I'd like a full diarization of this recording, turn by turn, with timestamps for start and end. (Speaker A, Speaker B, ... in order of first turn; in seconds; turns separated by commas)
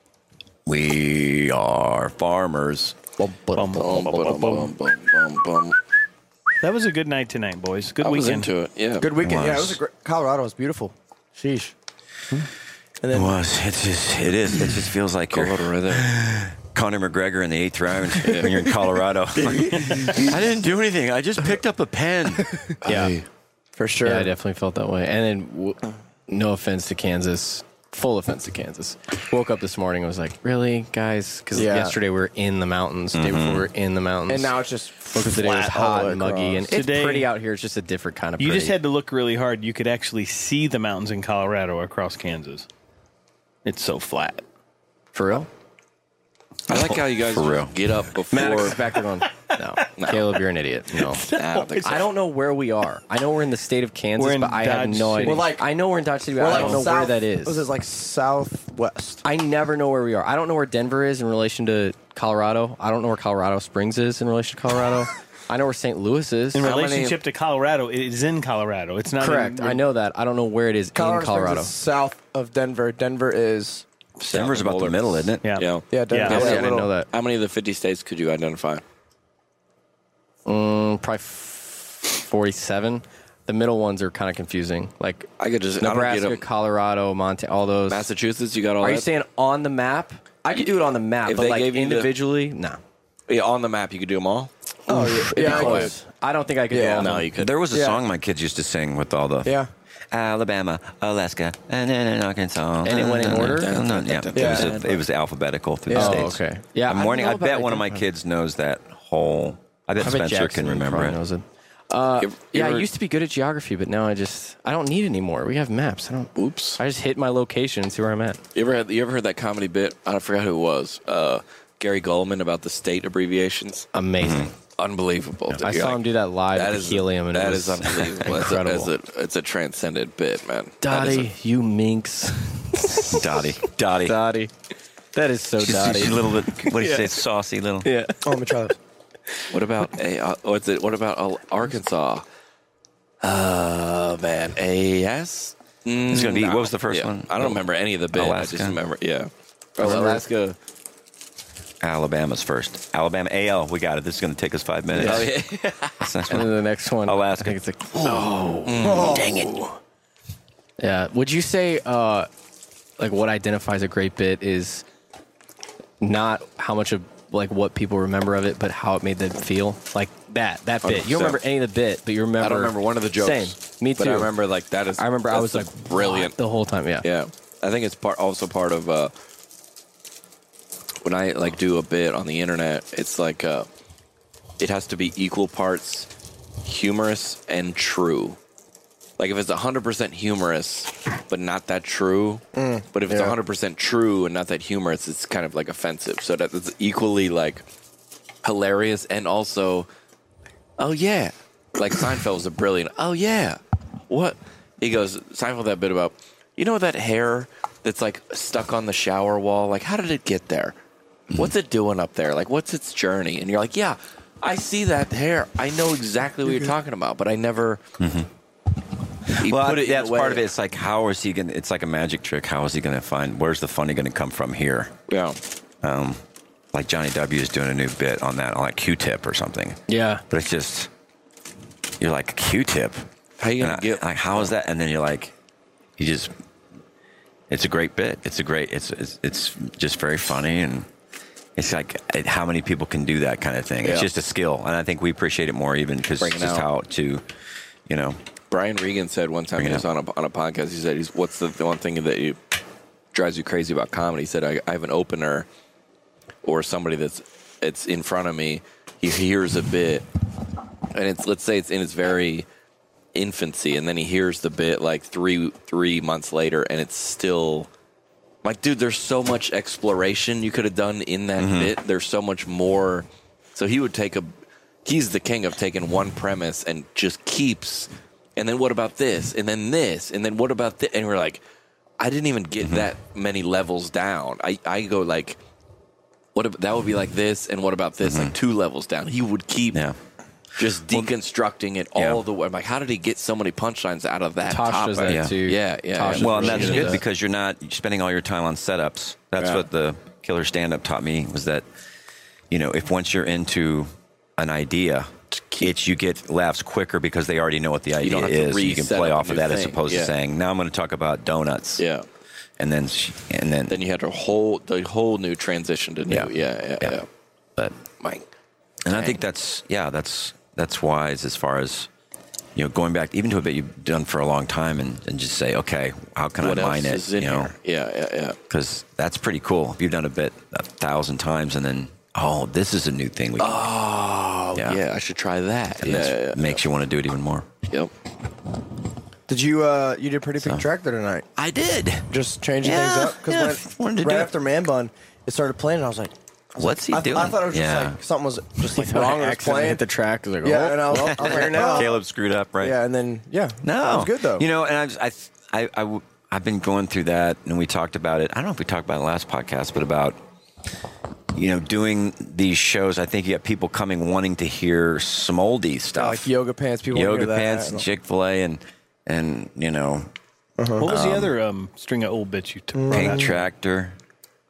Speaker A: 0.7-3.0, Speaker B: 3.2-3.9, Speaker C: 3.5-4.7, Speaker D: 3.8-5.8, Speaker C: 6.6-8.5, Speaker D: 8.0-9.1, Speaker B: 9.0-11.7, Speaker A: 9.2-9.8, Speaker B: 13.0-13.4, Speaker A: 13.1-22.6, Speaker D: 15.3-16.1, Speaker D: 18.2-18.6, Speaker B: 19.4-20.4, Speaker C: 19.8-20.1, Speaker D: 22.9-23.2, Speaker E: 22.9-23.1, Speaker B: 23.8-24.3, Speaker E: 24.0-34.6, Speaker B: 31.5-32.0, Speaker A: 33.1-33.7, Speaker B: 34.3-36.7, Speaker E: 35.1-38.8, Speaker C: 36.7-37.3, Speaker C: 38.4-42.7, Speaker C: 43.6-44.4, Speaker E: 45.1-45.5, Speaker A: 46.7-47.8, Speaker D: 46.7-48.8, Speaker E: 48.3-51.2, Speaker D: 50.0-50.4, Speaker C: 51.0-52.1, Speaker D: 51.3-52.1, Speaker E: 51.8-57.7, Speaker C: 54.2-55.5, Speaker B: 55.2-55.7, Speaker B: 56.4-59.2, Speaker C: 56.5-56.9, Speaker E: 59.2-66.7, Speaker C: 66.5-69.8, Speaker D: 66.6-67.2, Speaker E: 69.2-71.7, Speaker B: 71.0-73.8, Speaker A: 74.2-75.4, Speaker D: 74.2-78.8, Speaker C: 75.4-76.5, Speaker B: 75.9-76.9, Speaker E: 76.2-77.1, Speaker E: 80.5-88.1, Speaker D: 85.4-86.4, Speaker D: 87.9-89.1, Speaker E: 88.8-92.8, Speaker D: 91.2-92.3, Speaker D: 93.3-94.5, Speaker B: 94.9-96.0, Speaker E: 94.9-97.2, Speaker D: 95.0-95.9, Speaker B: 96.7-98.0, Speaker D: 97.0-97.5, Speaker A: 97.4-99.6, Speaker B: 99.5-99.7, Speaker A: 100.1-111.2, Speaker E: 102.8-104.7, Speaker D: 103.6-105.0, Speaker B: 104.3-104.8, Speaker B: 105.9-106.3, Speaker E: 105.9-108.0, Speaker E: 110.0-118.4, Speaker D: 112.2-112.9, Speaker D: 116.4-116.8, Speaker D: 118.5-123.9, Speaker E: 123.9-124.5, Speaker A: 124.2-124.5, Speaker D: 124.8-131.3, Speaker E: 125.6-128.9, Speaker E: 130.8-133.4, Speaker A: 133.0-134.2, Speaker E: 134.0-134.5, Speaker E: 135.1-137.1, Speaker A: 135.6-137.9, Speaker E: 137.8-138.2, Speaker B: 138.2-138.8, Speaker D: 139.5-142.2, Speaker D: 143.2-150.6, Speaker A: 146.1-148.8, Speaker E: 149.8-150.2, Speaker A: 151.8-155.4, Speaker E: 155.0-155.3, Speaker D: 155.0-156.1, Speaker A: 156.0-159.5, Speaker E: 156.3-158.8, Speaker D: 158.7-159.6, Speaker B: 158.8-159.5, Speaker E: 160.8-162.3, Speaker E: 163.0-164.8, Speaker E: 166.0-174.3, Speaker D: 170.8-171.4, Speaker D: 172.4-176.4, Speaker E: 175.0-177.1, Speaker D: 177.0-179.1, Speaker D: 181.0-183.7, Speaker D: 184.6-186.1, Speaker D: 186.7-188.4, Speaker D: 189.2-197.7, Speaker B: 192.6-193.4, Speaker D: 198.4-199.9, Speaker D: 200.8-210.8, Speaker D: 211.3-217.8, Speaker A: 218.0-218.3, Speaker D: 219.3-220.5, Speaker A: 219.3-224.9, Speaker D: 225.1-225.4, Speaker A: 225.8-226.2, Speaker A: 226.7-230.9, Speaker E: 229.9-230.2, Speaker A: 232.0-233.1, Speaker D: 233.4-234.5, Speaker A: 233.6-235.3, Speaker A: 236.0-236.3, Speaker A: 237.5-240.9, Speaker A: 241.6-247.2, Speaker D: 243.8-244.1, Speaker D: 246.2-246.7, Speaker A: 247.9-248.2, Speaker D: 248.5-252.4, Speaker A: 249.6-249.8, Speaker D: 253.1-255.5, Speaker D: 256.4-260.1, Speaker D: 260.9-262.5, Speaker D: 263.1-267.7, Speaker D: 268.4-274.3, Speaker A: 271.4-271.8, Speaker D: 274.9-281.4, Speaker D: 282.0-285.4, Speaker A: 282.6-282.9, Speaker D: 286.4-289.8, Speaker A: 288.0-288.4, Speaker D: 290.6-297.0, Speaker A: 292.0-292.2, Speaker E: 294.5-297.0, Speaker A: 295.1-295.4, Speaker A: 296.1-301.6, Speaker D: 299.4-299.6, Speaker A: 302.5-311.9, Speaker D: 305.3-305.7, Speaker D: 308.0-310.1, Speaker D: 311.8-312.1, Speaker A: 312.6-313.8, Speaker D: 313.7-317.1, Speaker D: 318.0-318.2, Speaker A: 318.9-321.9, Speaker D: 318.9-319.2, Speaker A: 322.6-327.5, Speaker D: 326.4-328.4, Speaker A: 328.5-333.7, Speaker D: 333.4-336.6, Speaker A: 335.8-337.5, Speaker B: 339.3-341.3, Speaker A: 340.4-340.7, Speaker A: 341.4-344.3, Speaker B: 342.1-349.8, Speaker A: 346.6-348.0, Speaker E: 348.8-351.9, Speaker B: 350.4-352.0, Speaker A: 350.9-352.8, Speaker B: 352.6-354.5, Speaker A: 353.6-360.2, Speaker A: 361.3-366.3, Speaker B: 366.0-367.9, Speaker A: 366.9-370.1, Speaker B: 370.6-370.9, Speaker C: 370.8-373.3, Speaker A: 370.8-371.3, Speaker B: 372.8-373.3, Speaker A: 372.9-374.0